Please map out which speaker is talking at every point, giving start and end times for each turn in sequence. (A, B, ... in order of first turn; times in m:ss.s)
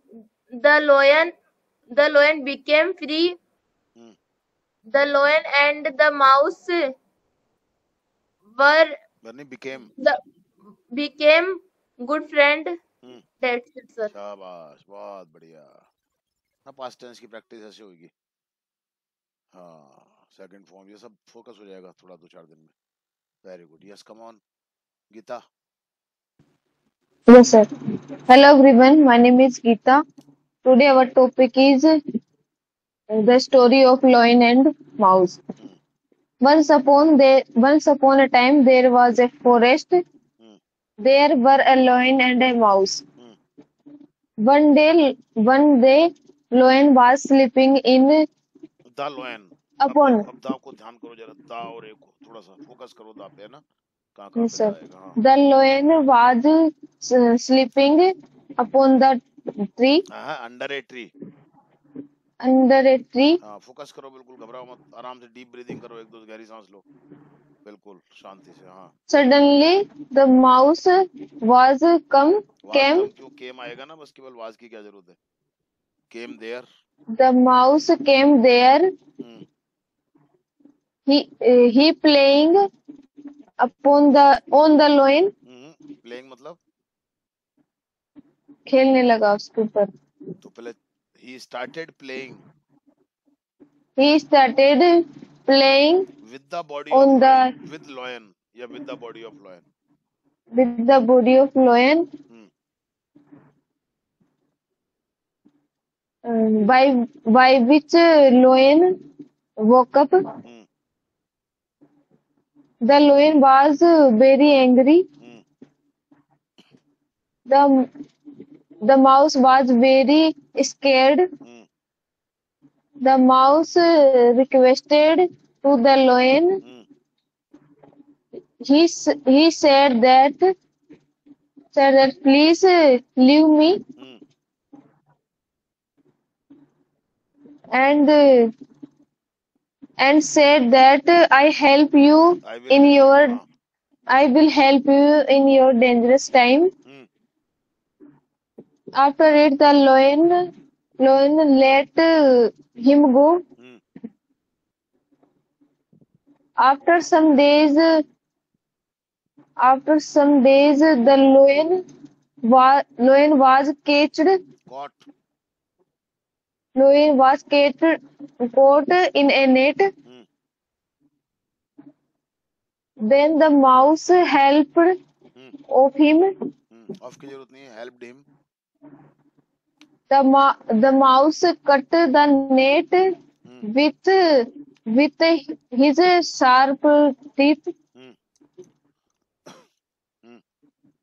0:00.5-0:01.3 A
0:01.9-0:03.4 A
0:04.9-0:06.9 A
0:08.5-0:08.9 A
0:09.2-0:09.9 B
0:10.9-0:12.8 A
0:13.4-0:14.1 A
0:14.1-0:15.8 B
0:16.6-0:18.1 B
0:19.5-0:22.7 B
0:23.4-0:24.4 B
0:25.1-0:25.4 B
0:27.3-0:27.7 C
0:28.3-0:30.0 C
0:30.6-0:31.9 C
0:33.1-0:35.4 C
0:36.4-0:40.0 C
0:41.0-0:43.0 C
0:44.4-0:48.2 C
0:48.9-0:53.6 B
0:49.8-0:50.2 C
0:54.2-0:55.2 B
0:54.4-0:59.2 C
0:59.7-1:00.0 C
1:00.1-1:01.1 B
1:02.4-1:03.4 C
1:03.4-1:06.8 B
1:07.6-1:08.9 B
1:09.1-1:13.1 C
1:12.6-1:15.2 B
1:16.1-1:16.7 B
1:17.2-1:18.9 C
1:19.2-1:19.4 B
1:21.1-1:22.6 C
1:23.6-1:25.3 C
1:25.4-1:26.6 B
1:28.7-1:29.9 C
1:30.4-1:32.4 B
1:34.0-1:34.9 C
1:35.5-1:36.1 C
1:36.2-1:39.6 B
1:36.9-1:37.5 C
1:40.5-1:42.1 C
1:46.2-1:49.0 C
1:49.6-1:50.2 C
1:52.8-1:55.0 C
1:57.5-1:57.9 C
1:58.8-2:01.2 C
2:01.4-2:01.7 B
2:03.0-2:06.6 C
2:06.6-2:06.9 B
2:08.6-2:10.5 C
2:11.7-2:13.8 C
2:17.7-2:18.5 C
2:20.0-2:23.4 C
2:22.4-2:23.4 B
2:24.1-2:26.7 C
2:29.0-2:30.3 C
2:31.0-2:33.4 C
2:36.6-2:37.9 C
2:39.6-2:41.8 C
2:42.5-2:44.3 C
2:44.7-2:45.0 B
2:46.8-2:48.0 C
2:48.5-2:49.9 C
2:53.0-2:54.9 C
2:55.7-2:56.3 C
2:56.7-2:58.2 B
3:00.1-3:03.0 C
3:03.6-3:07.7 C